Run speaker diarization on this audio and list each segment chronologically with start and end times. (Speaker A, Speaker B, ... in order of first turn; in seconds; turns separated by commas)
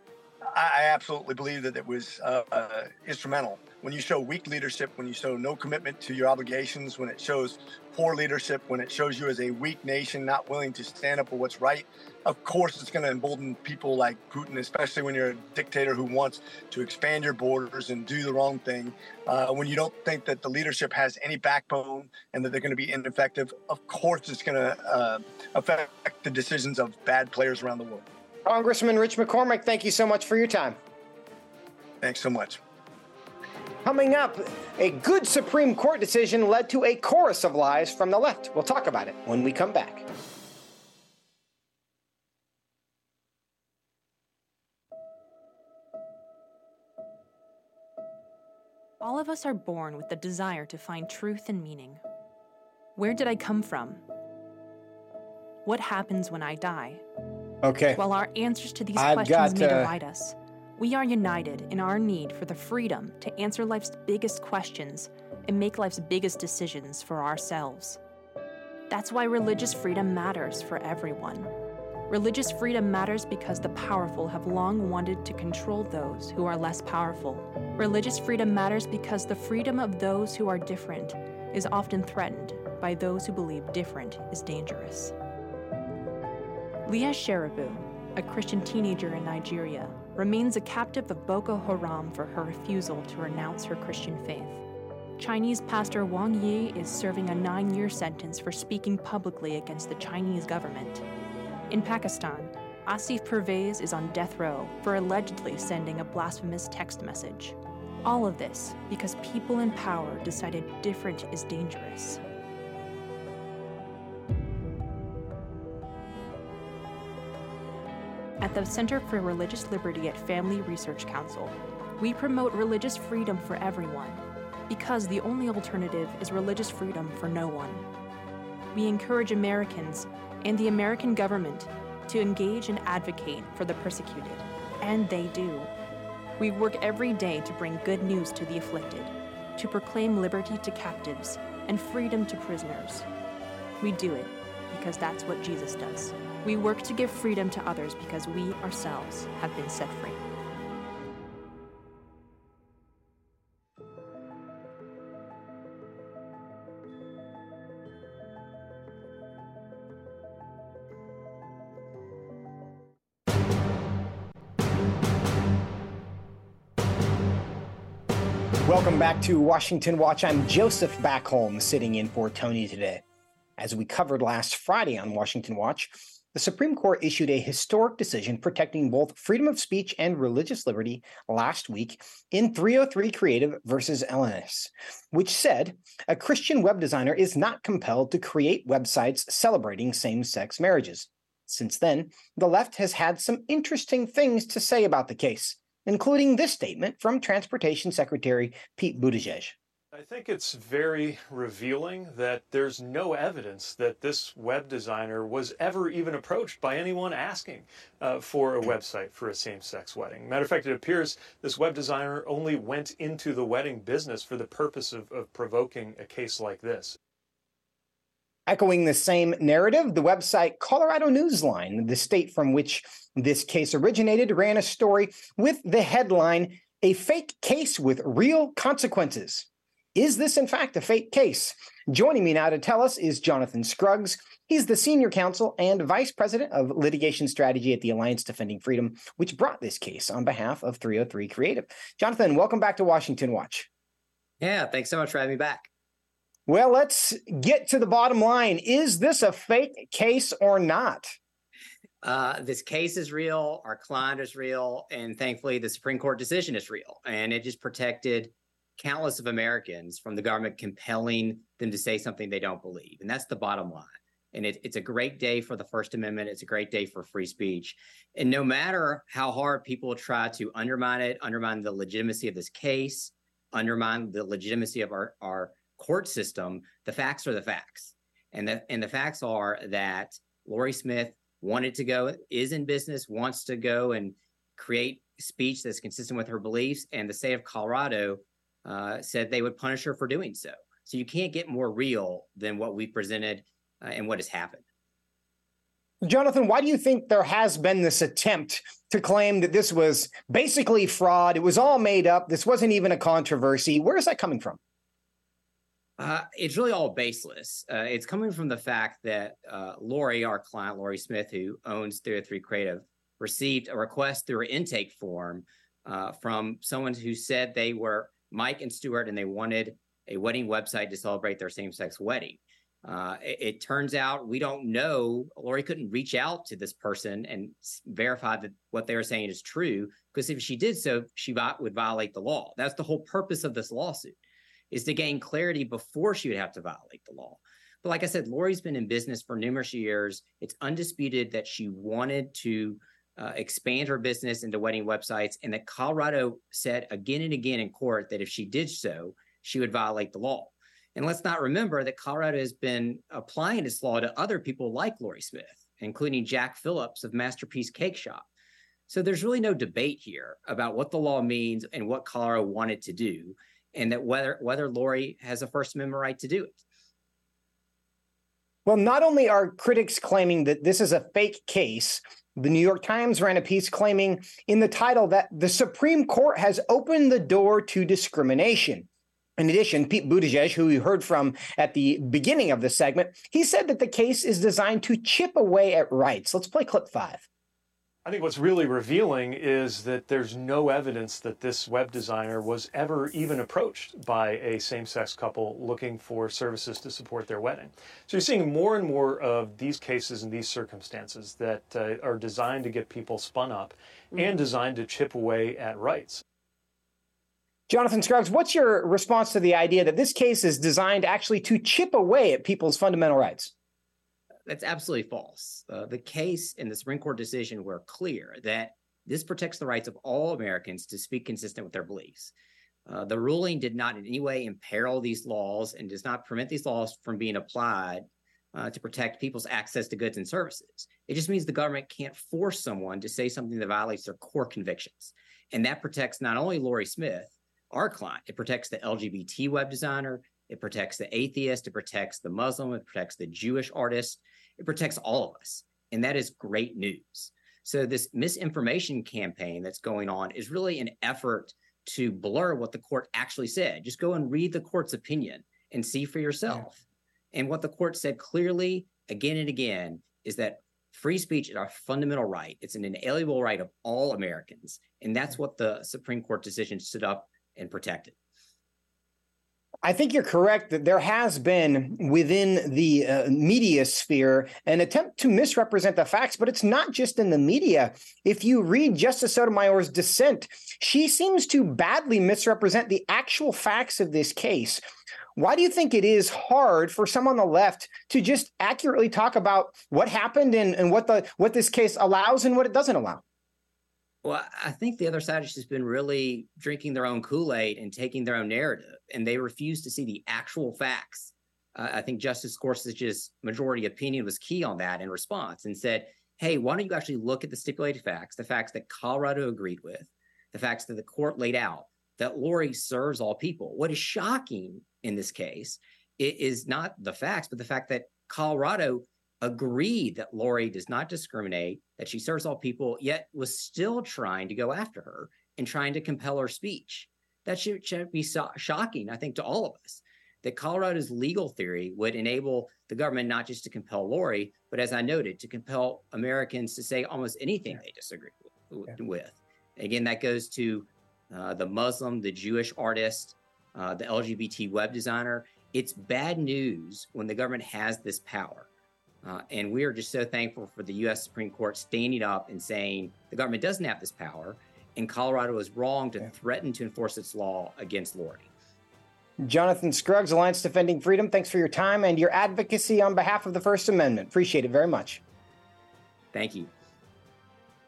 Speaker A: 0.5-28.1, Speaker B: 28.4-30.8, Speaker A: 32.0-32.6, Speaker B: 33.8-40.1, Speaker C: 49.0-52.0, Speaker C: 53.0-54.0, Speaker C: 55.6-57.0, Speaker B: 57.6-58.0, Speaker C: 58.0-68.0, Speaker B: 59.0-59.9, Speaker C: 68.9-71.5, Speaker C: 72.1-85.2, Speaker C: 86.9-94.6, Speaker C: 95.2-101.0, Speaker C: 101.7-112.2, Speaker C: 118.4-127.9, Speaker C: 128.7-135.7, Speaker C: 136.4-143.1, Speaker C: 143.8-150.2, Speaker B: 168.7-173.0, Speaker B: 173.6-199.6, Speaker D: 199.9-216.9, Speaker B: 218.5-243.7, Speaker E: 244.4-245.7, Speaker B: 246.5-251.2, Speaker E: 252.0-294.6, Speaker B: 296.0-304.6, Speaker E: 306.0-334.2, Speaker E: 334.7-358.3, Speaker E: 358.9-366.6, Speaker B: 368.7-378.9, Speaker B: 379.4-387.2, Speaker D: 388.1-406.2, Speaker B: 407.7-413.5, Speaker E: 414.5-422.3, Speaker E: 422.9-456.8, Speaker E: 457.3-468.2, Speaker B: 469.8-484.8, Speaker B: 485.4-493.2, Speaker E: 494.2-548.7, Speaker E: 549.2-558.5, Speaker B: 559.4-565.2, Speaker E: 566.3-566.7